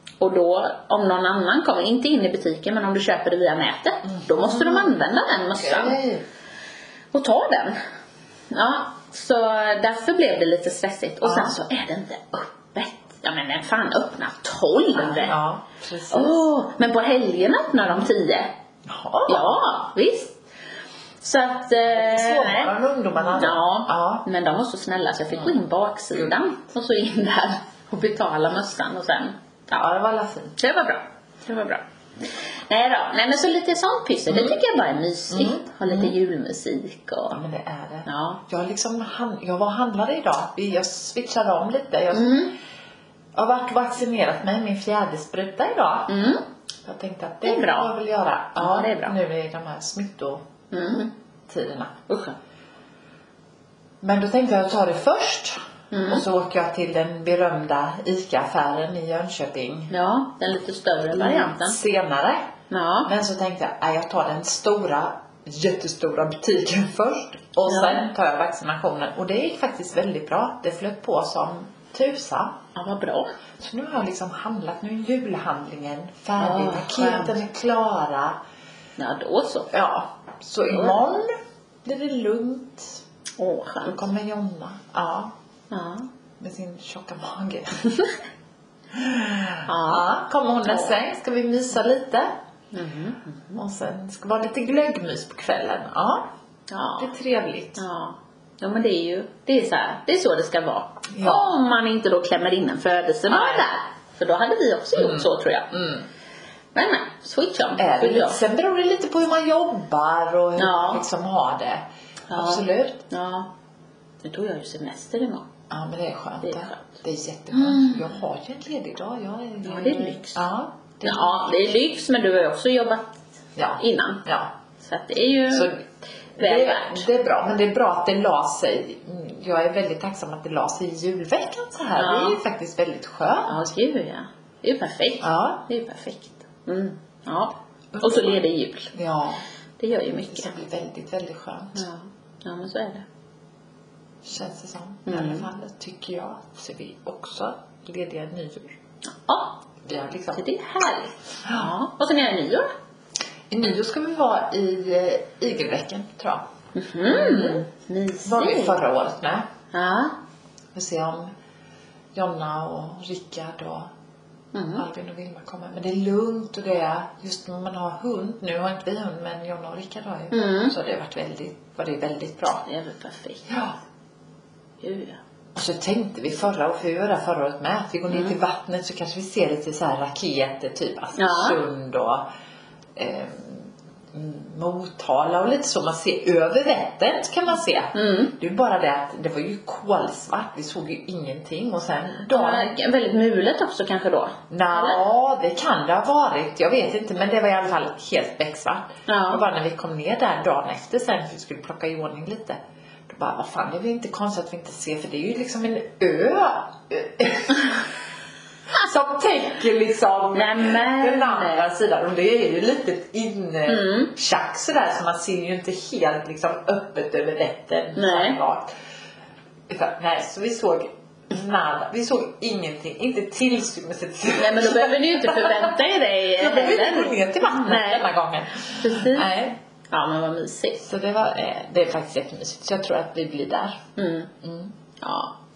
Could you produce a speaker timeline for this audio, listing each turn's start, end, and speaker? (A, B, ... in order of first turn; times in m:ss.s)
0:00.2-0:06.0 A
0:04.0-0:05.0 B
0:05.5-0:06.2 B
0:07.1-0:07.8 A
0:08.5-0:15.3 A
0:11.2-0:11.6 B
0:14.9-0:16.4 B
0:16.1-0:18.5 A
0:18.8-0:19.5 B
0:19.3-0:20.4 A
0:21.2-0:29.4 A
0:21.8-0:24.2 B
0:29.7-0:30.5 B
0:30.6-0:37.4 A
0:34.3-0:34.6 B
0:35.3-0:36.1 B
0:37.3-0:42.4 B
0:38.0-0:38.4 A
0:42.1-0:42.5 A
0:43.3-0:46.3 B
0:46.1-0:46.4 A
0:46.8-0:50.4 B
0:47.4-0:47.9 A
0:48.6-0:49.2 A
0:50.7-0:51.1 A
0:51.5-0:51.9 B
0:52.1-0:52.3 A
0:54.0-0:59.9 B
0:55.9-0:56.2 A
0:59.9-1:01.8 A
1:01.1-1:02.5 B
1:02.7-1:03.1 A
1:03.0-1:12.6 B
1:07.7-1:08.1 A
1:12.7-1:13.3 A
1:13.6-1:18.4 B
1:16.4-1:17.4 A
1:19.0-1:19.7 A
1:19.7-1:21.3 B
1:20.7-1:21.0 A
1:21.8-1:23.0 B
1:23.4-1:24.0 A
1:23.8-1:25.3 B
1:25.7-1:26.1 A
1:26.4-1:27.9 B
1:28.9-1:32.3 B
1:29.6-1:30.0 A
1:30.7-1:30.9 A
1:32.7-1:33.6 A
1:33.5-1:36.3 B
1:36.7-1:37.1 A
1:37.0-1:37.8 B
1:37.8-1:45.7 A
1:41.1-1:41.5 B
1:43.3-1:43.6 B
1:44.9-1:46.0 B
1:46.7-1:48.4 A
1:47.8-1:53.1 B
1:50.6-1:51.0 A
1:52.3-1:53.5 A
1:54.2-1:55.5 A
1:55.7-2:01.5 B
1:56.4-1:56.8 A
1:57.5-1:58.0 A
1:59.6-2:00.4 A
2:01.0-2:03.0 A
2:03.6-2:04.5 B
2:03.8-2:04.2 A
2:04.8-2:05.7 A
2:05.5-2:05.8 B
2:06.4-2:13.6 B
2:06.4-2:07.0 A
2:12.0-2:12.4 A
2:13.5-2:18.9 A
2:15.2-2:15.6 B
2:17.9-2:18.4 B
2:18.9-2:19.4 B
2:19.8-2:20.5 A
2:20.3-2:21.8 B
2:21.7-2:23.0 A
2:24.2-2:28.7 B
2:25.0-2:25.5 A
2:29.2-2:29.6 A
2:29.8-2:30.4 B
2:30.3-2:32.7 A
2:31.4-2:31.7 B
2:33.5-2:36.4 B
2:36.7-2:38.8 A
2:37.0-2:37.6 B
2:38.2-2:39.5 B
2:39.7-2:40.2 A
2:40.7-2:41.3 B
2:42.1-2:43.9 B
2:44.5-2:44.8 A
2:44.8-2:52.6 B
2:50.3-2:50.7 A
2:52.6-2:53.5 A
2:53.5-2:53.8 B
2:54.8-2:55.2 A
2:55.5-3:02.2 B
2:58.1-2:58.4 A
3:01.2-3:01.6 A
3:03.0-3:12.7 B
3:07.9-3:08.3 A
3:12.3-3:15.0 A
3:14.5-3:27.9 B
3:19.1-3:19.4 A
3:28.7-3:38.7 B
3:30.3-3:31.7 A
3:33.7-3:34.1 A
3:37.9-3:38.4 A
3:39.7-3:45.7 B
3:44.4-3:48.0 A
3:46.4-3:49.6 B
3:48.7-3:49.3 A
3:49.9-3:50.8 A
3:50.8-3:53.8 B
3:54.0-3:54.3 A
3:54.4-3:54.7 B
3:55.0-3:55.3 A